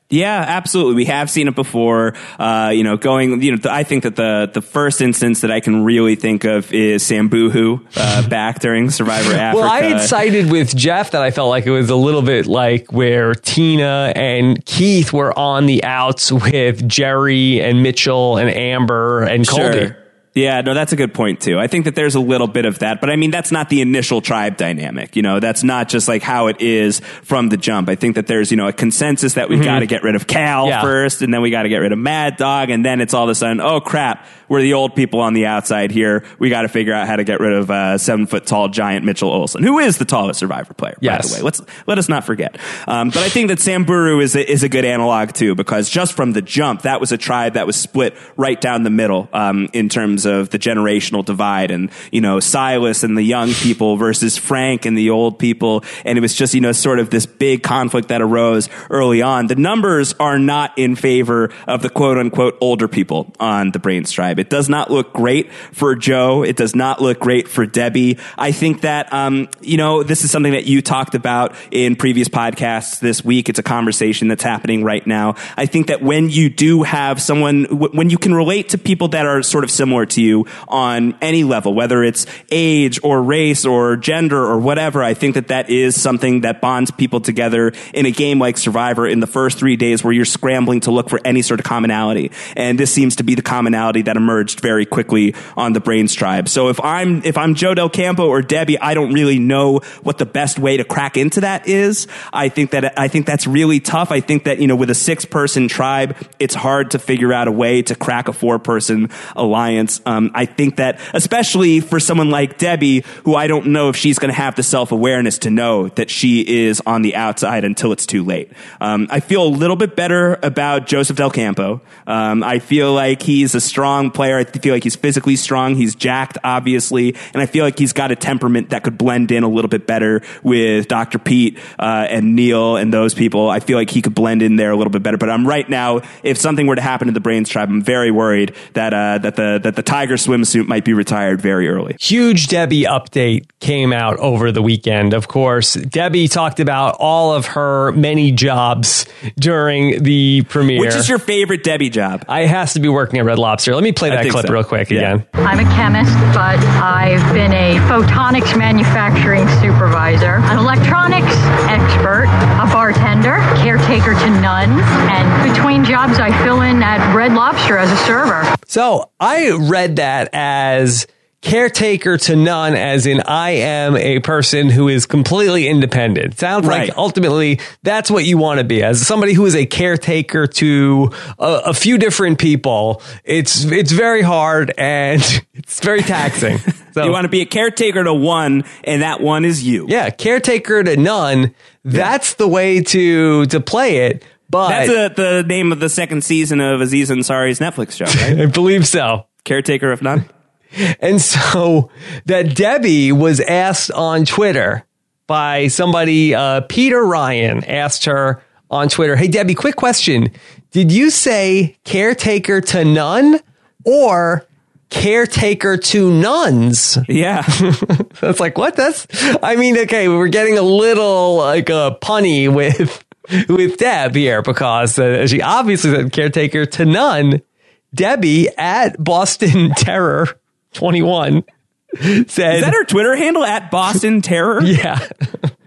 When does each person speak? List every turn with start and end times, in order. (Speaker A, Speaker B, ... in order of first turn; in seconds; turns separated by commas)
Speaker A: 0.1-10.1, Speaker B: 9.5-19.9, Speaker A: 19.5-142.0, Speaker B: 29.5-29.8, Speaker B: 30.6-30.9, Speaker B: 41.0-41.4, Speaker B: 142.0-151.1, Speaker A: 150.7-152.3, Speaker B: 152.3-155.2, Speaker A: 154.1-155.1, Speaker C: 155.4-168.5, Speaker B: 168.7-187.2, Speaker A: 176.6-176.9, Speaker A: 187.0-189.9, Speaker B: 189.9-194.9, Speaker A: 194.7-198.4, Speaker B: 198.1-199.3, Speaker A: 199.4-200.3, Speaker B: 200.8-217.1, Speaker A: 217.1-217.6, Speaker B: 217.6-227.4, Speaker B: 227.9-231.4, Speaker B: 232.0-232.8, Speaker A: 232.5-234.8, Speaker B: 234.6-235.5